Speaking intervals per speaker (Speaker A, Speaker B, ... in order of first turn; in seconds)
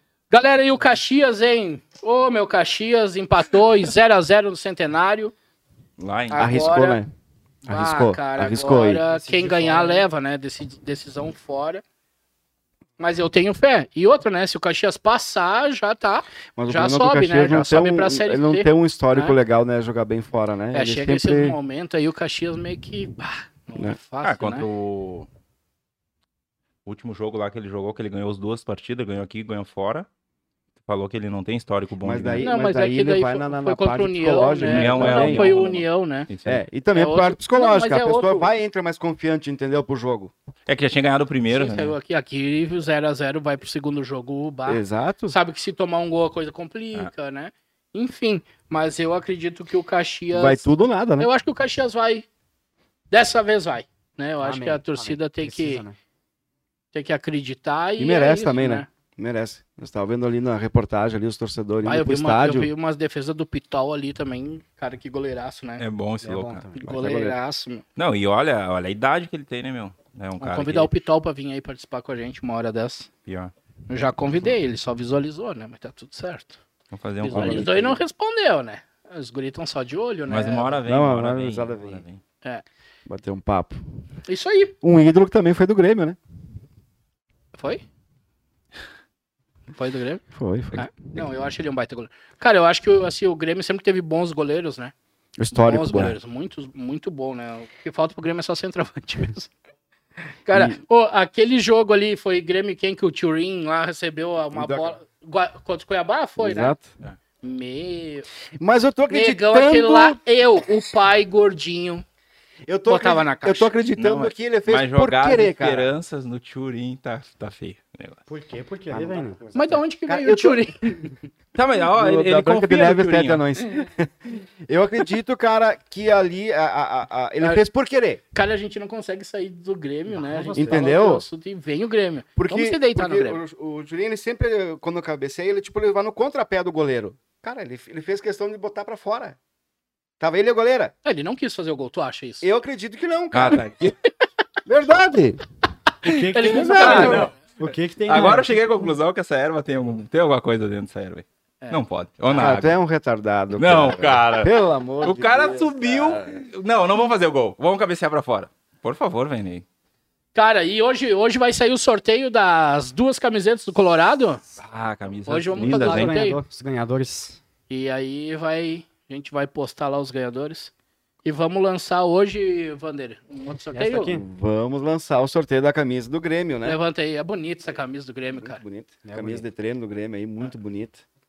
Speaker A: 0.3-5.3, 6.3-7.0, 7.7-11.8, 13.0-19.4, 20.7-24.6, 32.4-36.3, 36.9-38.5, 41.5-52.2, 53.1-55.8, 56.9-58.9, 61.8-65.8, 66.8-67.8, 70.4-73.1, 73.9-76.6, 77.2-80.8, 84.3-84.7, 87.5-87.8, 89.7-94.9, 95.5-99.5, 100.5-106.8, 107.4-108.3, 109.1-112.0, 112.9-113.7, 119.5-121.1, 128.3-133.4, 141.0-142.4, 146.3-147.3, 160.3-164.4, 165.3-166.4, 167.7-170.7, 171.2-174.2, 176.6-178.6
Speaker B: 6.0-6.6, 24.2-25.3, 26.8-30.1, 30.8-32.4, 34.6-36.6, 40.7-41.9, 65.8-66.7, 68.0-70.9, 73.2-73.5, 76.9-77.8, 80.3-82.2, 114.0-118.2, 121.5-123.4, 143.3-143.9, 146.8-147.2, 148.0-152.7, 153.6-159.6, 164.6-166.2
Speaker C: 6.3-7.1, 7.7-9.0, 16.6-21.6, 32.0-35.7, 36.4-40.3, 44.7-45.4, 50.3-51.3, 58.0-62.7, 66.8-67.4, 77.3-78.0, 80.8-82.0, 83.0-83.8, 84.8-86.2, 90.3-90.9, 95.4-96.2, 100.5-100.8, 104.5-104.9, 106.4-106.9, 108.6-110.2, 112.7-115.9, 118.9-120.9, 121.9-128.2, 130.5-131.2, 132.3-139.4, 140.2-140.9, 142.4-143.7, 144.7-145.4, 146.5-147.3, 152.3-156.4, 174.1-176.8, 178.3-181.0
Speaker D: 9.1-10.1, 54.4-56.0, 66.2-66.9, 118.3-119.4, 130.1-130.9, 146.0-148.6, 165.6-167.4, 173.7-174.2, 179.0-179.4